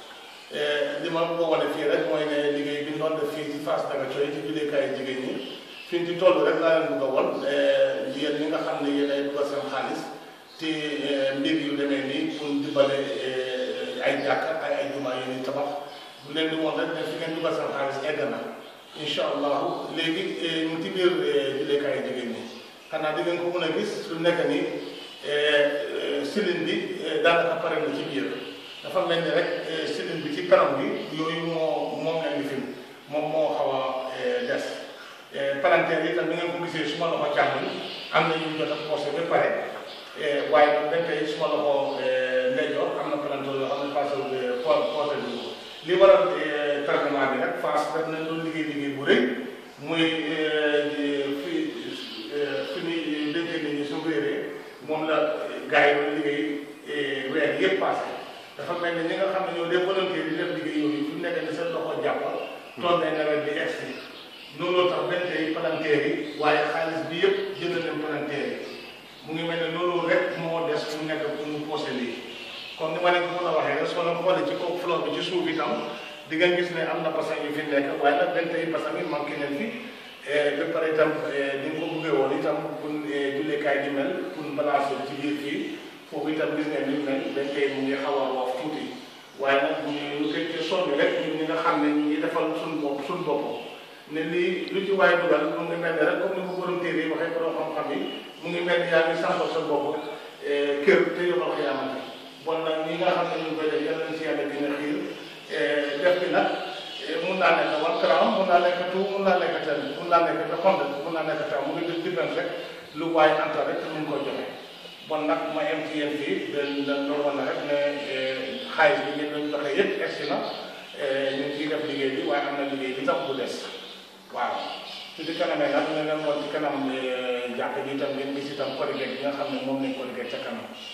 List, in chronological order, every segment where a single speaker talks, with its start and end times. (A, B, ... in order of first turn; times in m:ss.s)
0:00.5-0:10.0 A
0:10.6-0:24.7 A
0:25.2-0:39.6 A
0:40.1-1:04.0 A
1:04.5-1:08.6 A
1:09.2-1:12.2 A
1:12.8-1:15.8 A
1:16.3-1:54.5 A
1:55.0-2:00.4 A
2:00.9-2:03.7 A
2:04.3-2:10.7 A